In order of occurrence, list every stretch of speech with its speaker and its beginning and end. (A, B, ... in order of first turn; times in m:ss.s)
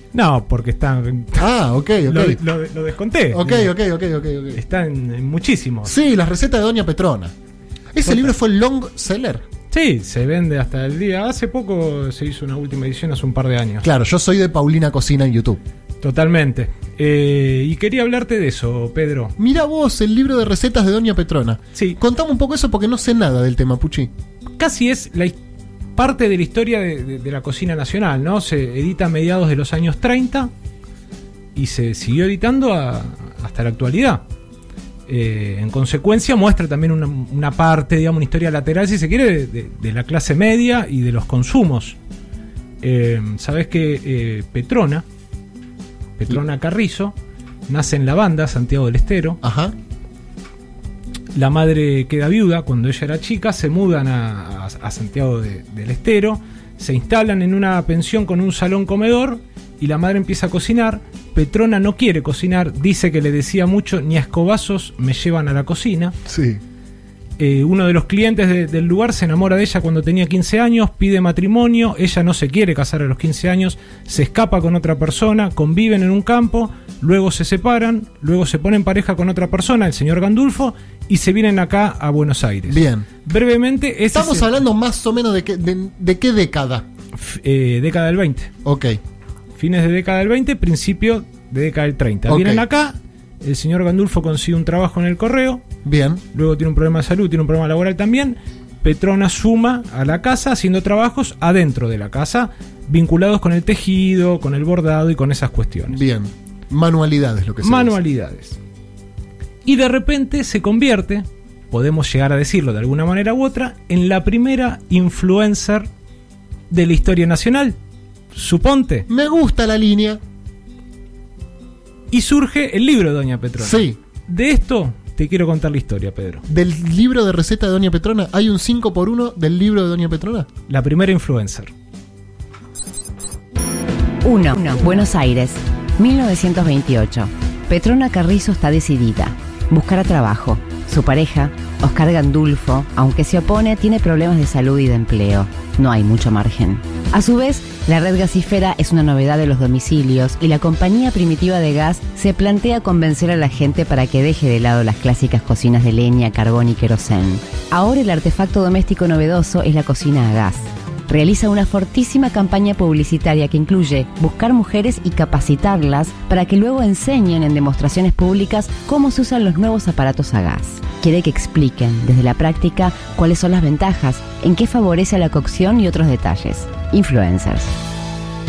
0:00.1-0:01.5 A
0:01.4-0:02.4 B
0:02.0-0:03.7 A
0:03.3-0:04.6 B
0:04.5-0:05.9 A
0:05.8-0:07.3 B
0:07.9-0:09.4 B
0:08.0-0:08.3 A
0:09.7-0:13.9 A
0:13.8-0:15.6 B
0:16.0-0:19.3 A
0:19.4-0:24.1 B
0:24.6-0:25.4 A
0:26.0-0:30.5 A
0:31.6-0:34.2 A
0:35.1-0:42.0 A
0:42.8-0:45.0 A
0:46.2-0:47.2 A
0:47.7-0:49.4 A
0:49.4-0:49.8 B
0:51.3-1:06.2 A
1:06.3-1:06.6 B
1:07.4-1:24.5 A
1:22.7-1:23.1 B
1:24.1-1:26.9 B
1:27.2-1:28.5 A
1:28.6-1:29.0 B
1:29.6-1:35.6 A
1:32.3-1:32.7 B
1:35.8-1:36.2 B
1:36.3-1:46.0 A
1:45.9-1:48.0 B
1:47.6-1:48.6 A
1:49.6-1:55.9 A
1:56.7-1:57.8 A
1:58.3-1:59.1 A
1:59.1-2:00.2 B
2:02.1-2:06.4 A
2:03.6-2:04.0 B
2:06.5-2:10.5 B
2:10.7-2:11.7 A
2:14.2-2:57.7 C